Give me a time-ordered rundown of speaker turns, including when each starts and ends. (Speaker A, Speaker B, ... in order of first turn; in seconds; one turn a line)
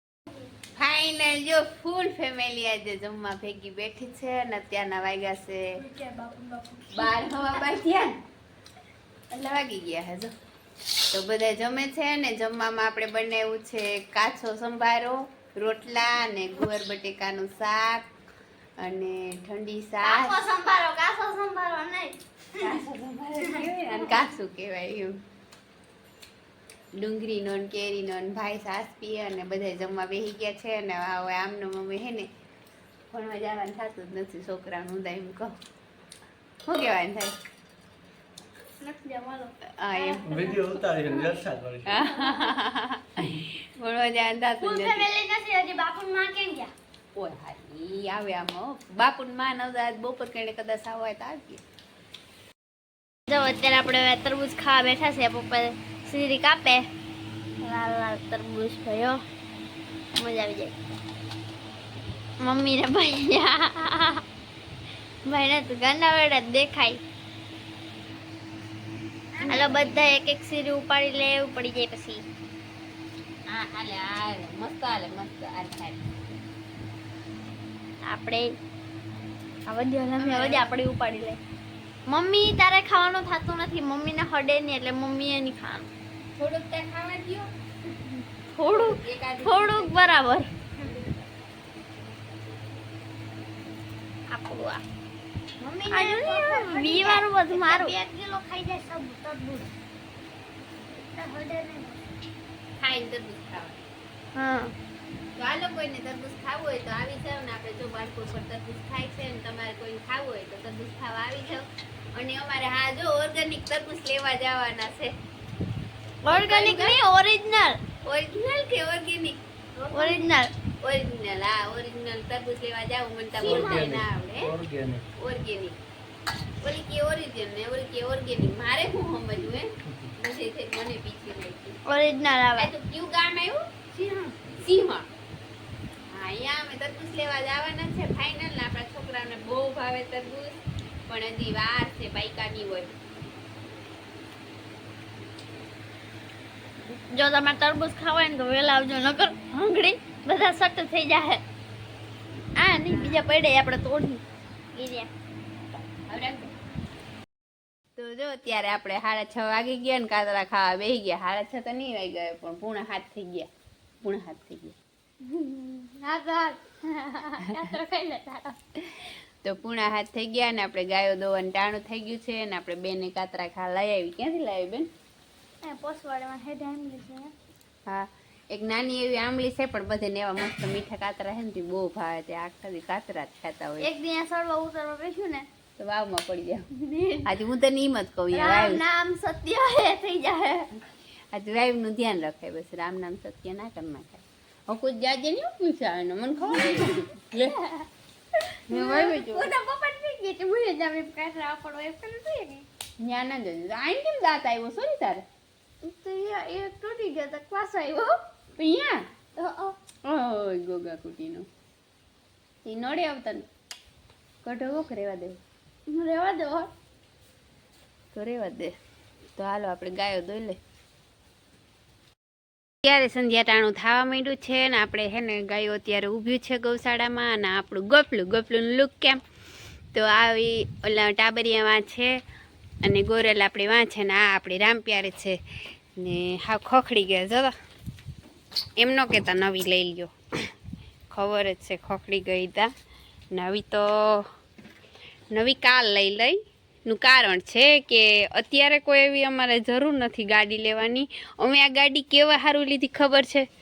Speaker A: 0.8-5.6
Speaker B: 5.8-7.1
Speaker A: 6.9-8.1
Speaker A: 9.3-10.3
Speaker A: 11.1-18.1
Speaker A: 18.8-20.4
Speaker C: 20.0-22.7
Speaker A: 22.6-25.2
Speaker C: 23.4-24.3
Speaker A: 27.0-32.3
Speaker A: 33.1-35.5
Speaker A: 36.7-37.4
Speaker B: 38.8-41.3
Speaker C: 38.9-39.2
Speaker A: 39.8-40.7
Speaker D: 40.2-42.0
Speaker A: 41.9-45.1
Speaker B: 42.1-42.4
Speaker B: 44.7-46.7
Speaker C: 44.8-45.3
Speaker A: 47.1-51.6
Speaker C: 53.3-56.9
Speaker C: 57.6-59.2
Speaker C: 60.2-60.7
Speaker C: 62.4-64.2
Speaker C: 65.3-67.0
Speaker A: 69.4-70.0
Speaker C: 69.5-72.2
Speaker A: 73.5-76.0
Speaker C: 78.1-78.6
Speaker C: 79.7-81.4
Speaker A: 80.2-80.6
Speaker C: 82.1-85.9
Speaker A: 86.4-87.5
Speaker C: 88.5-90.5
Speaker A: 88.7-90.2
Speaker C: 94.3-94.8
Speaker B: 95.6-99.7
Speaker C: 95.9-97.9
Speaker B: 101.1-102.0
Speaker A: 102.8-103.8
Speaker C: 104.3-104.7
Speaker A: 105.4-115.1
Speaker C: 116.2-117.8
Speaker A: 116.3-117.0
Speaker A: 118.0-124.5
Speaker C: 119.9-120.5
Speaker D: 123.4-125.0
Speaker C: 123.4-123.9
Speaker A: 125.2-125.8
Speaker A: 126.6-131.8
Speaker C: 131.9-132.7
Speaker A: 132.6-135.1
Speaker A: 136.1-142.9
Speaker C: 146.9-151.4
Speaker C: 152.6-154.2
Speaker A: 152.9-153.3
Speaker C: 154.8-155.1
Speaker A: 156.1-156.5
Speaker A: 158.0-163.5
Speaker A: 164.0-164.8
Speaker B: 165.3-168.6
Speaker A: 168.9-174.9
Speaker B: 175.7-177.2
Speaker C: 175.7-177.3
Speaker A: 177.9-183.9
Speaker C: 183.8-185.5
Speaker A: 185.8-186.7
Speaker C: 186.8-187.3
Speaker A: 187.3-188.8
Speaker C: 188.3-190.7
Speaker A: 191.3-197.5
Speaker C: 196.5-196.9
Speaker A: 198.7-199.5
Speaker C: 198.7-202.7
Speaker A: 203.0-205.2
Speaker C: 205.8-208.1
Speaker A: 208.6-211.5
Speaker A: 212.7-213.5
Speaker A: 214.4-215.4
Speaker C: 215.9-216.7
Speaker A: 218.1-218.7
Speaker A: 219.4-220.6
Speaker A: 222.8-229.2
Speaker A: 229.9-232.1
Speaker A: 232.8-235.4
Speaker A: 236.0-237.5
Speaker A: 238.8-240.1
Speaker A: 241.1-242.7
Speaker A: 243.3-244.3
Speaker A: 245.3-253.4